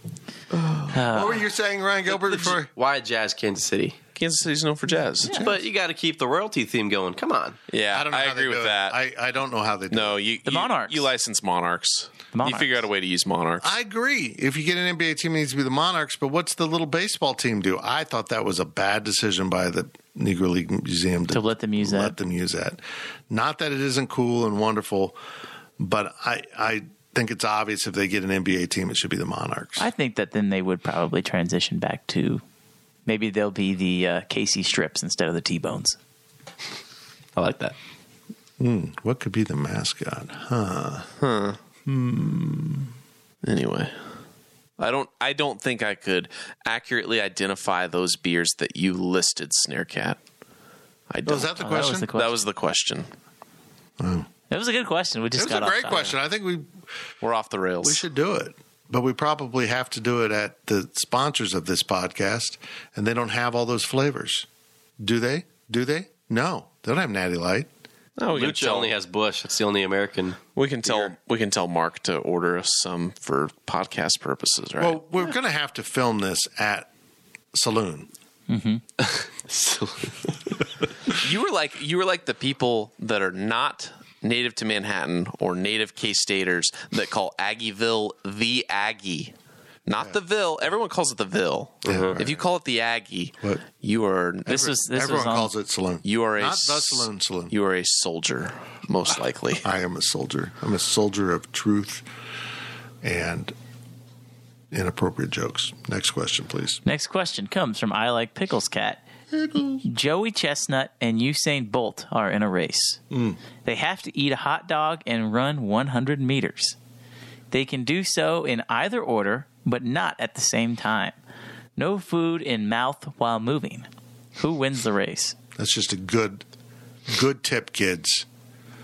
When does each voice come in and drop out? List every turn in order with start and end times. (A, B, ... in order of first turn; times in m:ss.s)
0:00.9-0:01.4 A
0:01.0-0:02.7 B
0:02.1-0:04.0 C
0:04.2-0:05.4 D
0:05.2-0:05.6 B
0:05.3-0:07.6 C
0:07.7-0:09.0 D
0:07.9-0:10.2 B
0:09.9-0:13.7 D
0:10.4-0:11.0 A
0:12.3-0:12.8 A
0:13.6-0:25.2 B
0:21.3-0:22.2 A
0:25.8-0:29.9 B
0:29.8-0:32.4 A
0:33.1-0:36.0 A
0:37.4-0:37.8 C
0:38.6-0:41.1 B
0:41.2-0:41.6 D
0:41.9-0:42.9 B
0:43.4-0:43.9 D
0:44.8-0:50.2 D
0:51.1-0:53.1 D
0:51.2-0:52.1 B
0:51.5-0:52.4 A
0:54.0-0:54.3 B
0:54.5-0:56.1 A
0:55.4-0:56.7 B
0:57.2-0:58.0 D
0:57.8-1:04.5 B
1:05.0-1:07.7 B
1:08.2-1:08.9 D
1:08.3-1:11.1 C
1:10.6-1:15.0 D
1:14.8-1:16.9 B
1:17.5-1:18.1 B
1:18.5-1:18.8 A
1:19.0-1:20.3 C
1:21.1-1:29.3 D
1:29.9-1:34.5 D
1:31.9-1:32.1 C
1:31.9-1:32.5 B
1:34.4-1:37.5 B
1:34.5-1:35.5 A
1:36.0-1:39.6 D
1:39.6-1:42.1 B
1:43.0-1:43.5 B
1:44.7-1:46.8 B
1:46.8-1:49.0 A
1:49.3-1:49.9 B
1:49.8-1:53.0 A
1:53.1-1:53.4 B
1:53.6-1:56.8 A
1:57.5-2:01.2 A
2:01.8-2:05.4 A
2:05.6-2:06.4 B
2:07.1-2:08.3 B